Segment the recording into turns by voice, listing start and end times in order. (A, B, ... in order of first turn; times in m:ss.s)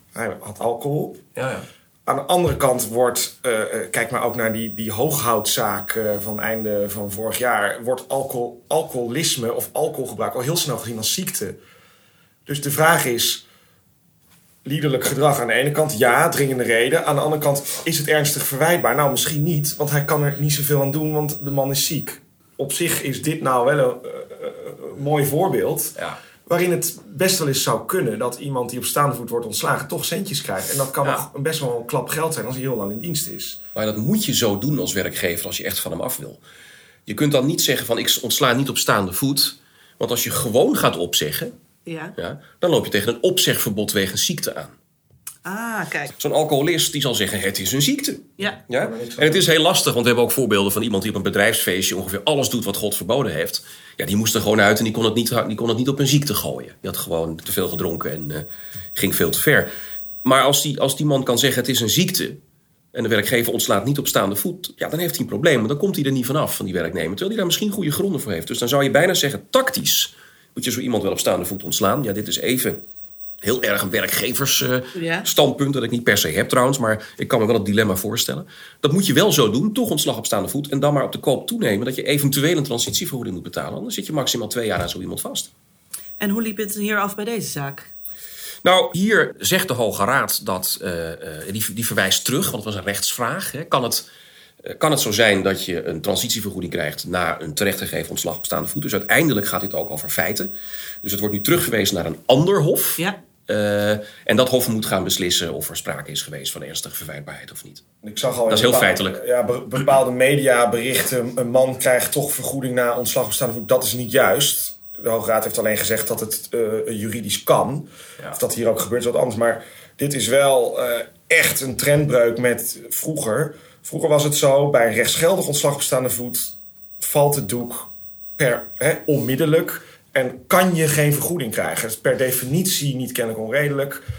0:00.1-0:01.2 A
0:01.4-0:01.6 B
0:02.0-0:11.6 A
0:12.4-0:13.4 A
0:14.6-0:33.6 A
0:33.7-0:36.4 B
0:37.1-0:41.5 B
0:41.8-0:42.1 C
0:42.2-0:44.7 B
0:45.4-0:46.1 C
0:46.2-0:59.7 B
0:48.7-0:49.4 A
1:00.2-1:02.4 B
1:02.9-1:12.8 B
1:13.4-1:25.5 B
1:14.9-1:15.3 C
1:26.2-1:27.9 C
1:28.6-1:34.1 B
1:34.6-1:40.5 B
1:41.0-1:47.8 B
1:48.0-2:14.0 A
1:48.5-1:49.2 B